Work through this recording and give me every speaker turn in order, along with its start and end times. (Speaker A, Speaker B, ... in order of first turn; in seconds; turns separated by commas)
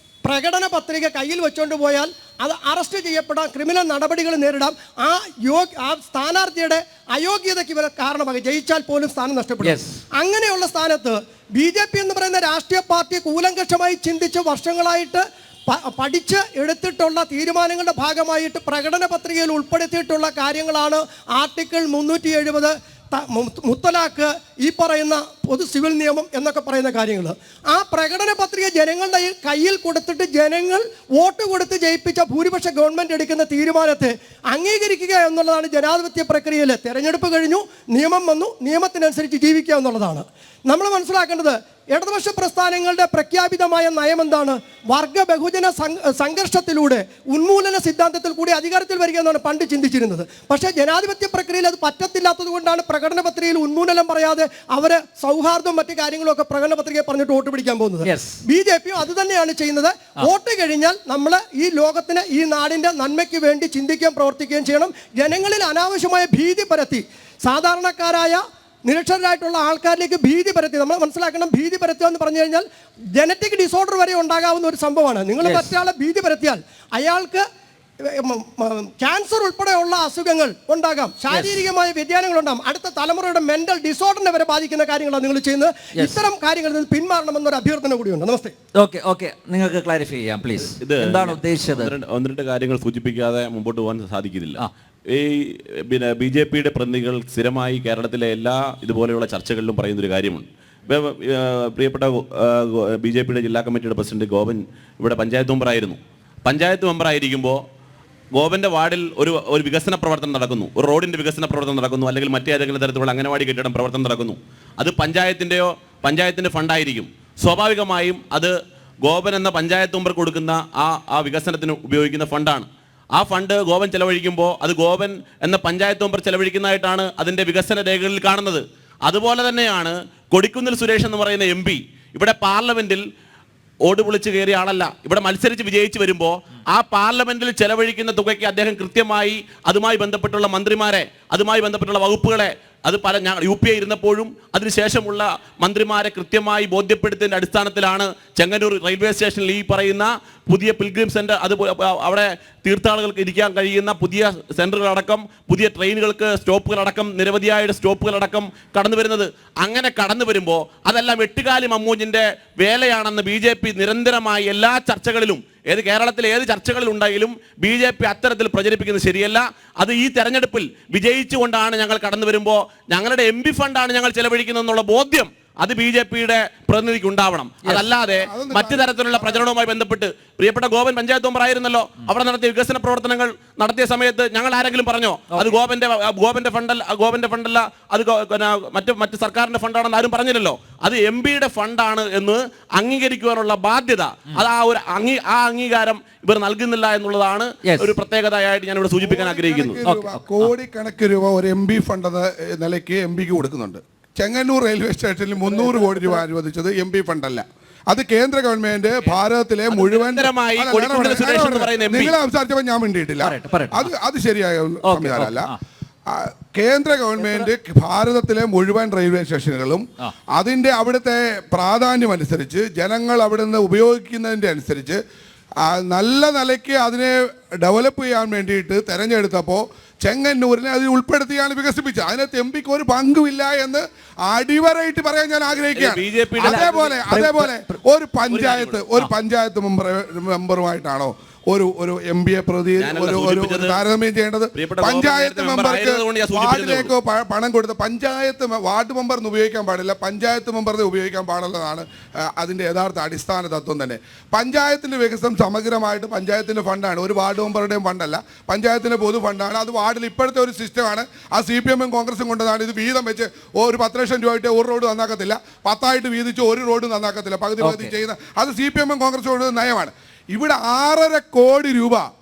Speaker A: 0.2-77.4, Speaker B: 9.6-10.0, Speaker B: 58.0-58.4, Speaker B: 75.4-75.7, Speaker A: 78.0-88.5, Speaker B: 81.3-81.7, Speaker B: 85.9-86.2, Speaker B: 88.8-91.9, Speaker C: 90.8-107.6, Speaker C: 108.3-133.0, Speaker C: 133.8-199.8, Speaker B: 177.6-177.9, Speaker D: 178.1-179.5, Speaker B: 197.6-197.9, Speaker D: 199.0-215.5, Speaker B: 199.8-200.5, Speaker B: 205.4-206.2, Speaker C: 209.7-212.2, Speaker B: 213.2-213.9, Speaker B: 214.8-215.6, Speaker D: 216.1-225.0, Speaker B: 217.2-217.5, Speaker D: 225.6-272.0, Speaker C: 235.8-237.0, Speaker B: 236.4-237.8, Speaker C: 238.3-238.8, Speaker C: 242.8-243.8, Speaker C: 244.5-246.9, Speaker B: 267.6-267.9